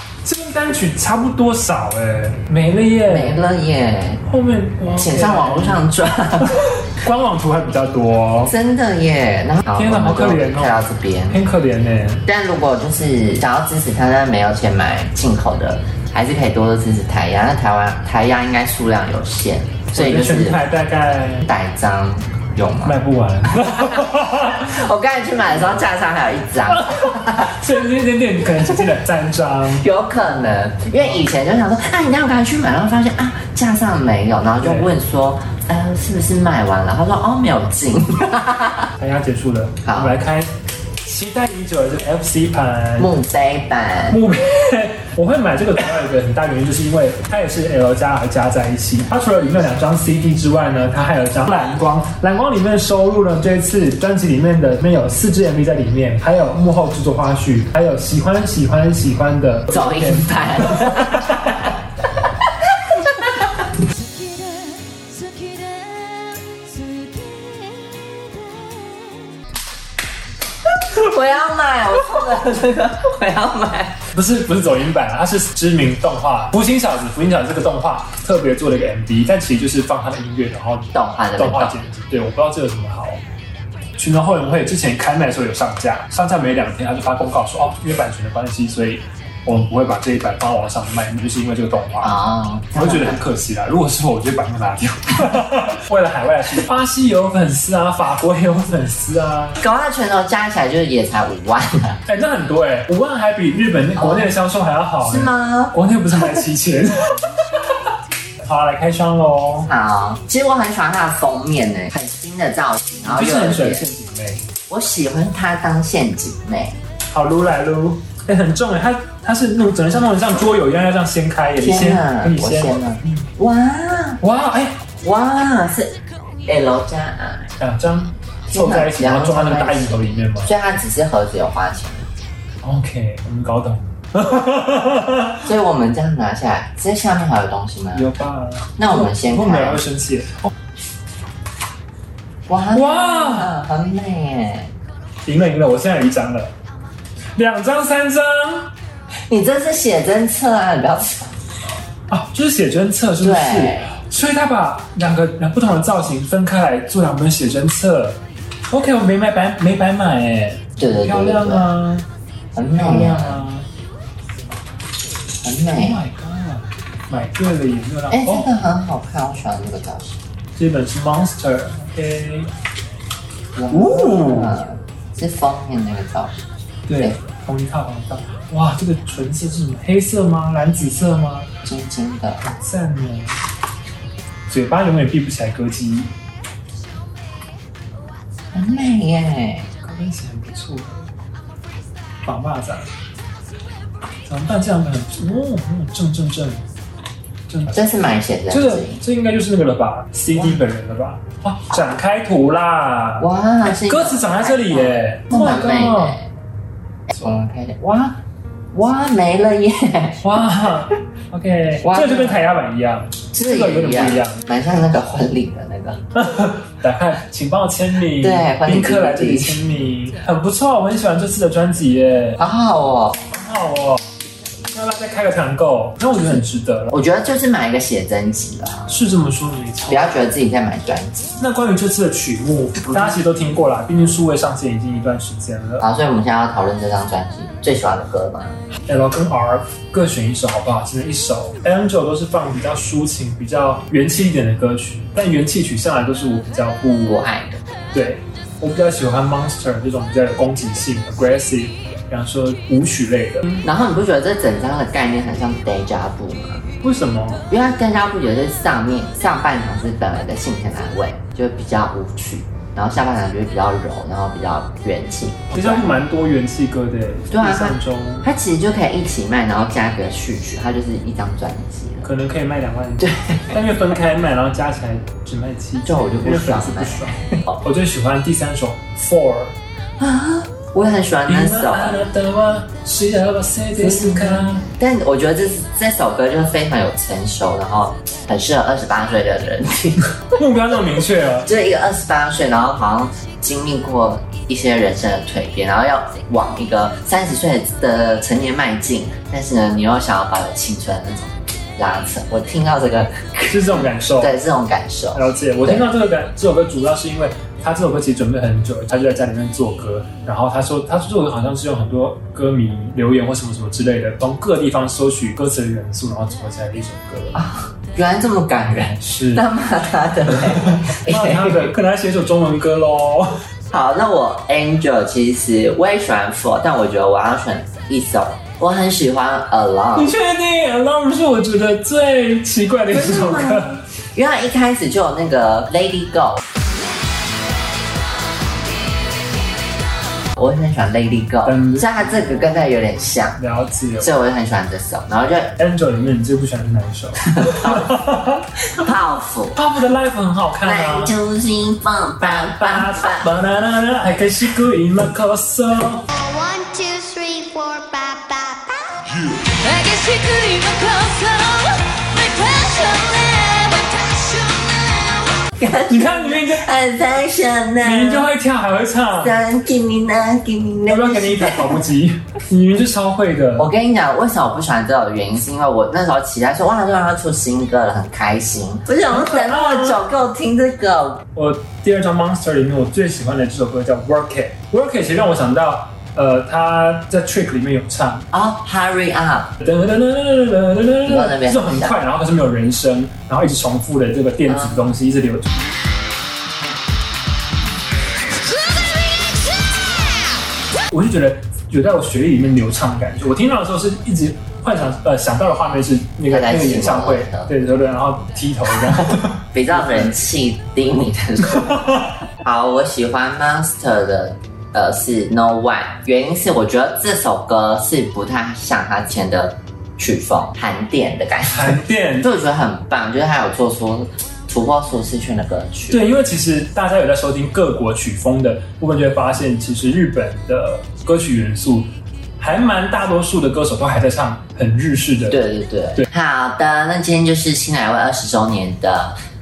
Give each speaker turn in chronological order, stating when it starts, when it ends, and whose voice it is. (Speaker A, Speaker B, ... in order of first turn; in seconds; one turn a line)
Speaker A: 0.2-3.4
Speaker B: 3.1-4.2
Speaker A: 4.2-5.8
Speaker B: 4.9-6.7
Speaker A: 6.8-8.5
Speaker B: 8.5-11.4
Speaker A: 9.7-12.2
Speaker B: 12.2-20.6
Speaker A: 19.9-21.5
Speaker B: 21.4-23.0
Speaker A: 22.8-24.7
Speaker B: 23.6-27.5
Speaker A: 26.7-29.9
Speaker B: 29.7-38.9
Speaker A: 34.6-34.9
Speaker A: 39.0-40.5
Speaker B: 39.8-40.2
Speaker A: 41.0-43.1
Speaker B: 43.0-44.2
Speaker A: 44.1-61.7
Speaker B: 59.7-61.7
Speaker B: 62.8-63.5
Speaker C: 63.9-69.0
Speaker B: 70.7-74.0
Speaker A: 74.1-83.2
Speaker B: 80.9-81.8
Speaker A: 84.0-92.2
Speaker B: 92.0-93.2
Speaker A: 92.7-99.6
Speaker B: 99.6-102.0
Speaker A: 102.1-107.9
Speaker B: 105.0-105.8
Speaker A: 108.4-109.7
Speaker B: 109.7-113.8
Speaker A: 113.0-114.5
Speaker B: 114.7-116.8
Speaker A: 117.1-123.3
Speaker B: 121.6-124.2
Speaker A: 124.2-124.8
Speaker B: 125.0-127.5
Speaker A: 127.6-130.5
Speaker B: 128.5-132.1
Speaker A: 132.6-135.4
Speaker B: 135.4-138.1
Speaker A: 137.9-140.5
Speaker B: 138.8-139.8
Speaker B: 142.5-144.7
Speaker A: 142.7-143.6
Speaker A: 145.2-146.5
Speaker A: 147.3-148.7
Speaker B: 149.3-151.3
Speaker A: 152.1-162.1
Speaker B: 153.2-154.0
Speaker B: 160.8-161.7
Speaker B: 162.6-163.4
Speaker A: 162.8-163.7
Speaker B: 165.4-166.0
Speaker A: 165.7-168.5
Speaker B: 168.1-170.2
Speaker A: 170.6-172.5
Speaker B: 173.5-176.4
Speaker A: 173.7-174.6
Speaker A: 176.9-181.5
Speaker B: 181.6-182.4
Speaker A: 182.4-183.4
Speaker A: 184.5-186.1
Speaker B: 188.5-189.7
Speaker A: 189.8-191.1
Speaker A: 192.2-192.9
Speaker A: 194.2-196.6
Speaker A: 197.5-197.8
Speaker B: 197.7-199.0
Speaker A: 198.5-206.2
Speaker B: 203.2-206.3
Speaker B: 207.1-208.2
Speaker B: 208.7-210.4
Speaker A: 210.2-214.4
Speaker B: 211.8-212.4
Speaker B: 213.3-216.0
Speaker A: 216.1-222.4
Speaker B: 218.2-219.6
Speaker B: 222.4-223.3
Speaker A: 223.3-224.0
Speaker A: 224.7-226.9
Speaker B: 226.9-228.9
Speaker A: 228.9-230.2
Speaker B: 229.8-231.4
Speaker A: 231.4-235.8
Speaker B: 235.8-238.6
Speaker A: 238.9-247.2
Speaker B: 247.1-247.6
Speaker A: 247.9-253.6
Speaker B: 253.6-256.6
Speaker A: 256.8-257.4
Speaker B: 257.5-265.9
Speaker A: 265.5-268.3
Speaker B: 267.3-272.1
Speaker A: 272.0-279.6
Speaker B: 273.0-273.5
Speaker B: 275.8-277.2
Speaker B: 280.0-282.1
Speaker A: 281.3-284.7
Speaker B: 283.8-290.1
Speaker A: 290.2-291.5
Speaker B: 291.4-305.9
Speaker A: 303.5-304.4
Speaker A: 305.1-317.4
Speaker B: 317.3-321.7
Speaker A: 318.9-319.4
Speaker A: 320.7-323.3
Speaker B: 323.7-330.1
Speaker A: 329.9-333.8
Speaker B: 332.9-336.4
Speaker B: 340.4-343.4
Speaker A: 341.4-342.3
Speaker A: 343.4-344.1
Speaker B: 344.0-345.6
Speaker A: 345.6-348.5
Speaker B: 347.4-347.8
Speaker B: 348.8-349.6
Speaker A: 349.6-351.1
Speaker B: 350.6-353.3
Speaker A: 352.2-356.1
Speaker D: 356.2-358.7
Speaker C: 359.3-361.7
Speaker D: 361.9-364.3
Speaker C: 362.2-365.1
Speaker B: 365.5-368.3
Speaker A: 365.9-366.7
Speaker A: 367.8-369.4
Speaker B: 369.1-371.8
Speaker A: 370.9-373.7
Speaker B: 373.6-381.2
Speaker A: 379.1-380.0
Speaker A: 381.3-388.3
Speaker B: 388.3-389.5
Speaker A: 389.6-395.5
Speaker B: 391.0-392.0
Speaker A: 400.9-410.1
Speaker B: 406.3-407.5
Speaker B: 409.5-426.0
Speaker A: 421.5-422.3
Speaker A: 425.9-435.4
Speaker B: 435.3-439.1